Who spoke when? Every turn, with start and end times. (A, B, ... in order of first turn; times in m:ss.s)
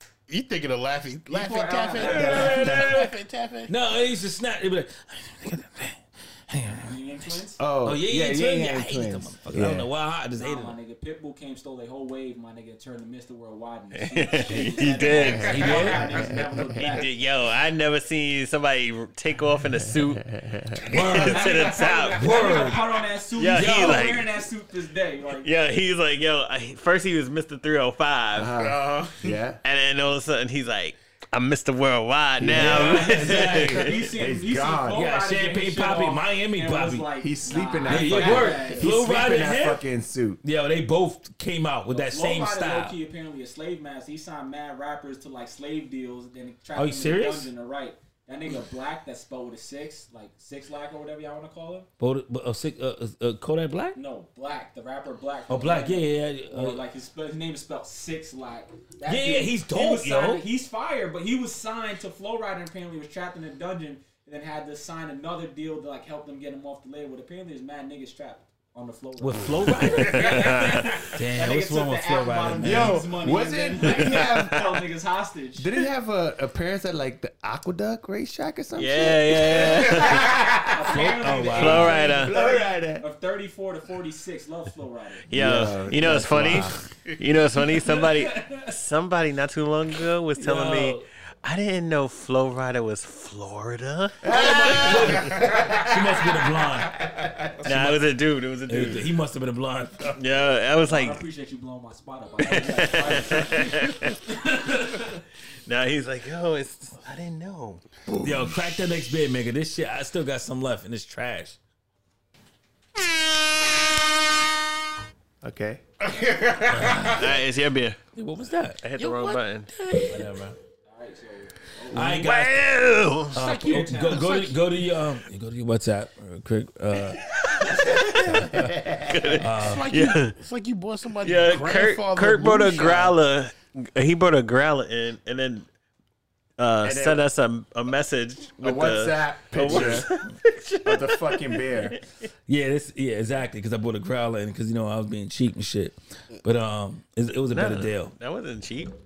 0:00.3-0:03.7 A
0:01.3-0:02.6 B
0:02.0-0:03.1 C
0:02.0-0:03.0 D
0:03.7-0:07.0 C
0:06.8-0:07.6 B
0:07.6-0:09.9 D
0:07.8-0:10.8 C
0:10.4-0:17.1 B
0:13.9-0:15.8 E
0:15.2-0:16.9 D
0:15.4-0:16.3 C
0:16.8-0:20.4 E
0:20.0-0:20.8 D
0:20.8-0:21.5 A
0:20.9-0:22.9 C
0:20.9-0:22.6 E
0:21.1-0:25.5 B
0:23.4-0:24.4 E
0:23.5-0:24.1 C
0:25.4-0:28.6 E
0:28.3-0:29.6 D
0:28.5-0:29.4 A
0:29.6-0:33.9 E
0:32.4-0:33.3 D
0:32.5-0:34.0 C
0:32.8-0:39.0 B
0:34.0-0:35.0 D
0:34.9-0:37.2 C
0:37.2-0:40.4 D
0:37.9-0:39.8 C
0:40.4-0:43.0 C
0:41.9-0:51.9 B
0:46.7-0:47.5 C
0:52.0-0:54.0 C
0:53.9-1:15.8 B
0:55.5-0:56.8 C
0:59.0-1:00.4 C
1:09.2-1:13.1 C
1:10.1-1:11.1 E
1:12.6-1:14.8 D
1:15.6-1:20.7 D
1:18.7-1:20.3 E
1:20.6-1:25.3 B
1:20.8-1:22.1 C
1:21.5-1:22.4 E
1:22.1-1:23.0 D
1:25.3-1:35.3 E
1:25.3-1:26.8 D
1:27.9-1:28.7 B
1:30.4-1:31.0 C
1:34.2-1:36.2 D
1:34.3-1:37.1 C
1:36.9-1:37.5 D
1:37.6-1:38.0 C
1:37.6-1:39.1 E
1:38.7-1:40.2 C
1:40.2-1:41.2 E
1:40.8-1:45.2 B
1:42.4-1:44.2 E
1:45.6-1:47.8 E
1:48.1-1:48.6 D
1:48.2-1:51.6 C
1:55.4-1:55.8 D
1:56.0-1:57.3 A
1:56.7-1:57.3 C
1:57.1-1:58.0 E
1:58.1-1:58.8 C
1:58.8-1:59.8 E
1:59.0-2:00.2 A
2:00.0-2:00.6 C
2:00.8-2:02.2 B
2:01.9-2:02.6 C
2:02.0-2:03.4 E
2:03.3-2:07.2 C
2:03.4-2:04.6 A
2:03.4-2:04.4 B
2:07.6-2:10.4 E
2:08.1-2:08.8 C
2:08.2-2:09.3 D
2:09.4-2:09.9 C
2:09.4-2:13.2 A
2:11.2-2:15.7 E
2:16.6-2:22.0 E
2:16.8-2:17.2 D
2:18.6-2:20.1 D
2:20.8-2:22.0 D
2:22.5-2:28.1 C
2:27.5-2:28.9 E